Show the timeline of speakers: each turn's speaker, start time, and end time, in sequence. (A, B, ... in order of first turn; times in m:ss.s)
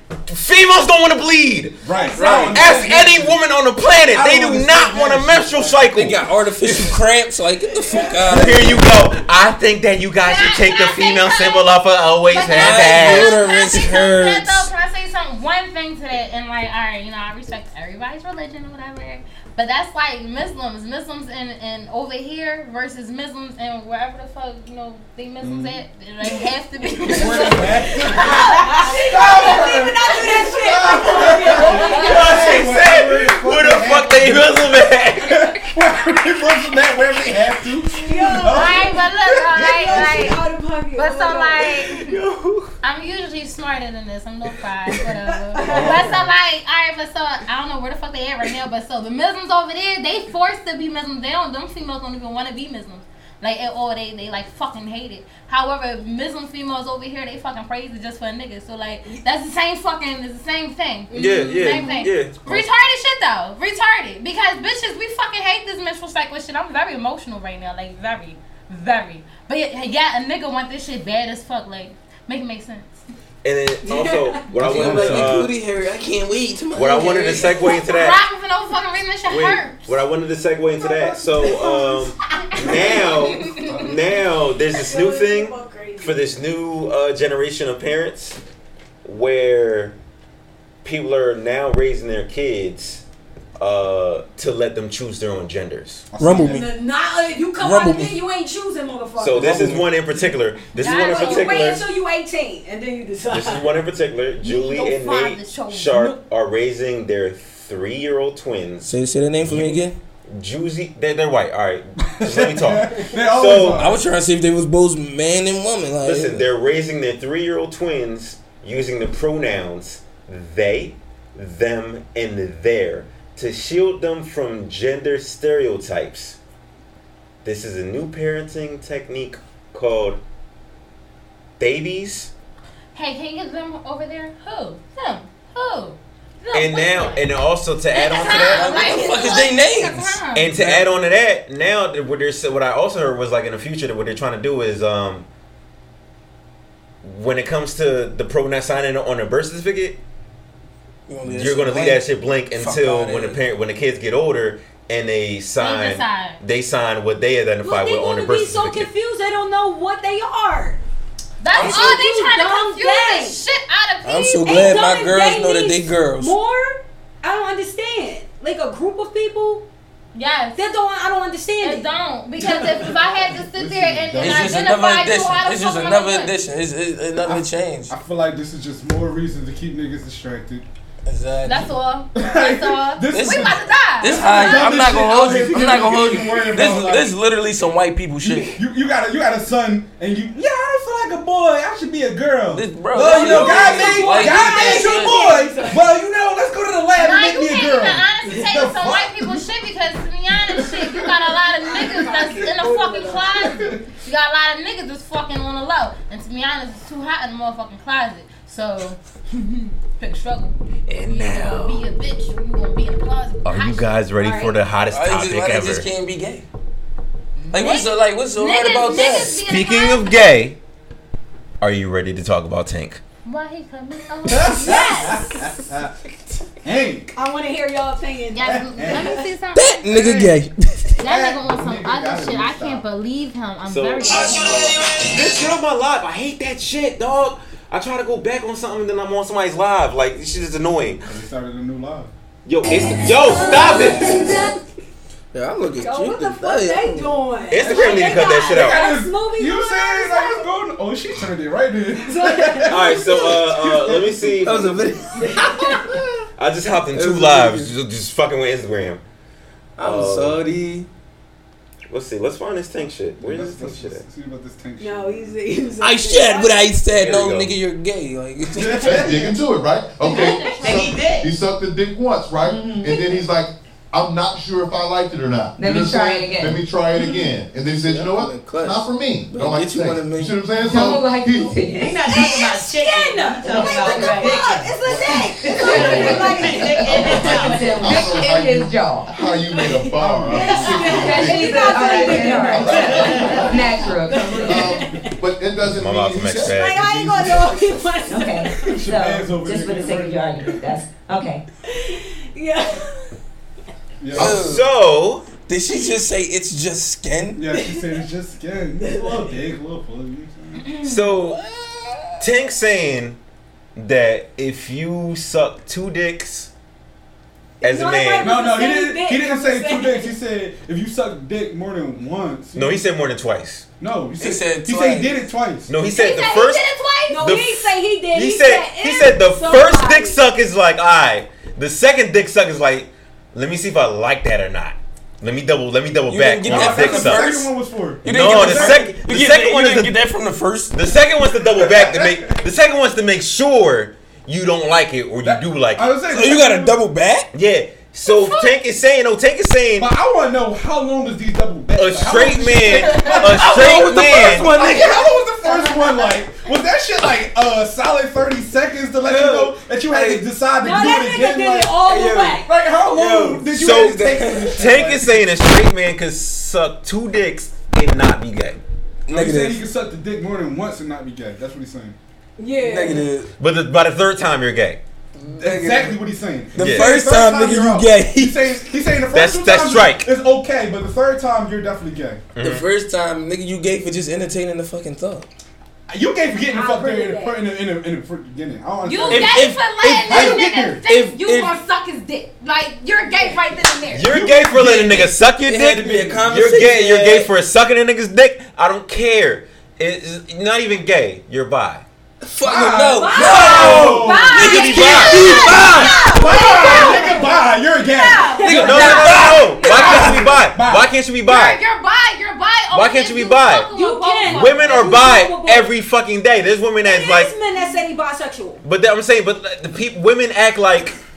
0:00.3-0:07.0 A
0:01.8-0:03.4 B
0:02.1-0:02.9 C
0:04.1-0:05.8 B
0:05.9-0:08.9 C
0:08.3-0:13.4 A
0:10.2-0:11.7 D
0:12.3-0:29.5 D
0:12.5-0:14.7 C
0:25.4-0:25.8 B
0:26.9-0:40.4 B
0:28.5-0:32.6 E
0:31.9-0:35.8 A
0:38.0-0:38.9 E
0:38.5-0:40.4 D
0:39.6-0:41.7 E
0:41.0-0:42.1 D
0:41.8-0:42.8 A
0:42.8-1:13.0 D
0:45.6-0:46.1 E
0:45.7-0:46.3 B
1:01.1-1:02.4 A
1:01.2-1:01.8 E
1:13.4-1:15.6 A
1:13.9-1:14.5 E
1:14.6-1:17.6 C
1:14.6-1:15.5 B
1:16.7-1:18.2 A
1:17.7-1:20.0 D
1:19.3-1:28.4 A
1:21.4-1:21.7 D
1:22.5-1:23.5 D
1:22.7-1:23.6 E
1:23.7-1:24.1 B
1:24.7-1:26.1 E
1:29.0-1:30.0 A
1:30.8-1:33.0 A
1:33.6-1:36.1 A
1:36.1-1:36.7 B
1:36.2-1:36.7 C
1:36.4-1:39.7 E
1:37.6-1:38.2 C
1:39.2-1:41.9 A
1:39.4-1:39.9 C
1:40.8-1:41.6 D
1:40.8-1:43.7 E
1:43.3-1:48.9 A
1:44.4-1:46.2 D
1:48.8-1:50.0 C
1:49.4-1:53.9 A
1:52.2-1:54.0 B
1:53.7-1:56.5 C
1:56.0-2:06.4 A
2:07.4-2:10.2 A
2:11.6-2:12.3 A
2:13.0-2:17.3 D
2:16.5-2:18.7 A
2:17.9-2:20.5 D
2:18.5-2:20.9 C
2:20.4-2:25.3 A
2:27.0-2:30.0 A
2:31.1-2:33.4 C
2:31.2-2:38.9 A
2:35.6-2:36.4 D
2:37.6-2:40.8 E
2:41.4-2:44.8 D
2:41.5-2:42.0 C
2:41.5-2:43.4 E
2:44.0-2:46.4 C
2:44.4-2:49.6 E
2:50.2-2:50.6 D
2:50.5-2:51.9 E
2:51.6-2:56.3 D
2:52.4-2:54.7 B
2:54.2-2:57.9 C
2:57.2-3:00.7 B
3:01.1-3:01.7 C
3:01.4-3:04.7 D
3:02.1-3:07.1 B
3:03.1-3:08.6 C
3:08.5-3:19.4 B
3:12.5-3:15.3 C
3:13.0-3:15.9 E
3:17.0-3:33.9 D
3:20.5-3:21.2 B
3:21.6-3:23.4 E
3:22.1-3:22.4 B
3:23.3-3:23.8 B
3:30.9-3:31.8 A
3:33.4-3:35.9 A
3:34.2-3:34.5 E
3:34.9-3:36.5 C
3:37.5-3:39.4 C
3:37.5-3:40.2 D
3:39.4-3:40.6 A
3:41.6-3:43.0 A
3:43.2-3:45.3 D
3:44.2-3:46.0 B
3:46.6-3:47.2 B
3:47.2-3:49.3 E
3:48.3-3:50.3 D
3:48.5-3:49.2 B
3:49.6-3:51.0 C
3:51.0-3:54.7 D
3:51.0-3:52.8 B
3:53.6-4:01.0 A
3:54.3-3:55.2 C
4:01.0-4:02.1 B
4:02.5-4:04.5 A
4:02.9-4:04.5 E
4:05.3-4:07.2 C
4:05.8-4:10.5 E
4:07.5-4:08.9 A
4:07.6-4:14.7 B
4:12.1-4:13.4 E
4:12.7-4:14.7 A
4:14.4-4:15.6 C
4:15.2-4:15.9 E
4:16.4-4:19.0 A
4:16.9-4:17.7 C
4:19.8-4:20.9 C
4:19.8-4:20.4 A
4:21.9-4:24.0 A
4:23.2-4:25.4 B
4:24.8-4:26.7 E
4:25.8-4:29.3 C
4:26.9-4:27.5 A
4:28.5-4:29.4 B
4:28.8-4:42.3 F
4:30.0-4:31.0 D
4:30.6-4:31.3 G
4:32.4-4:33.3 G
4:35.6-4:36.7 G
4:37.8-4:40.9 C
4:40.7-4:49.4 G
4:42.6-4:47.7 E
4:43.7-4:45.2 B
4:45.7-4:51.8 F
4:45.7-4:46.2 B
4:49.5-4:51.5 B
4:50.4-4:55.2 E
4:50.8-4:54.7 G
4:52.5-4:53.7 F
4:52.8-4:53.6 B
4:54.3-4:54.6 B
4:54.4-4:57.8 F
4:55.7-4:56.9 A
4:56.5-4:58.6 E
4:58.1-5:01.4 G
4:58.5-5:00.7 B
5:01.7-5:03.1 E
5:04.0-5:04.4 B
5:04.1-5:04.6 C
5:04.2-5:05.2 A
5:05.5-5:07.5 C
5:07.4-5:10.7 B
5:07.6-5:07.9 E
5:08.8-5:09.4 C
5:10.8-5:11.4 A
5:12.2-5:13.2 A
5:13.8-5:16.5 A
5:17.6-5:18.3 A
5:17.6-5:20.1 E
5:18.2-5:22.8 B
5:22.6-5:23.7 A
5:23.8-5:25.7 B
5:24.2-5:25.2 C
5:25.7-5:37.3 A
5:25.9-5:30.2 E
5:26.0-5:27.2 D
5:36.1-5:40.8 C
5:36.4-5:38.9 B
5:38.1-5:40.0 A
5:40.7-5:45.9 A
5:41.2-5:42.4 B
5:45.2-5:46.8 B
5:46.1-5:47.3 C
5:47.3-5:49.9 A
5:48.0-5:48.6 D
5:49.8-6:05.2 B
5:51.7-5:54.5 A
5:53.1-5:55.0 C
5:55.4-5:56.1 E
5:59.0-6:00.3 C
6:00.6-6:02.5 E
6:02.9-6:08.6 A
6:03.7-6:04.6 C
6:09.1-6:09.6 C
6:09.1-6:12.0 B
6:12.4-6:13.1 E
6:12.6-6:13.3 C
6:13.4-6:14.8 A
6:15.2-6:16.0 C
6:15.2-6:22.2 B
6:16.5-6:18.4 C
6:16.6-6:17.0 A
6:19.1-6:20.1 A
6:22.4-6:22.7 A
6:22.4-6:25.3 C
6:25.9-6:30.8 B
6:26.5-6:27.5 E
6:28.8-6:34.1 D
6:29.1-6:29.6 A
6:30.9-6:31.6 C
6:33.9-6:41.8 A
6:34.0-6:36.3 B
6:35.4-6:37.3 C
6:42.3-6:46.0 C
6:42.4-6:50.9 B
6:43.0-6:50.1 E
6:43.3-6:45.6 D
6:43.3-6:45.8 A
6:46.2-6:47.2 D
6:48.4-6:50.4 C
6:48.6-6:51.6 A
6:51.3-6:54.9 D
6:52.7-6:53.7 A
6:53.7-6:55.7 E
6:54.3-6:57.3 A
6:56.8-6:58.6 E
6:58.6-7:01.0 A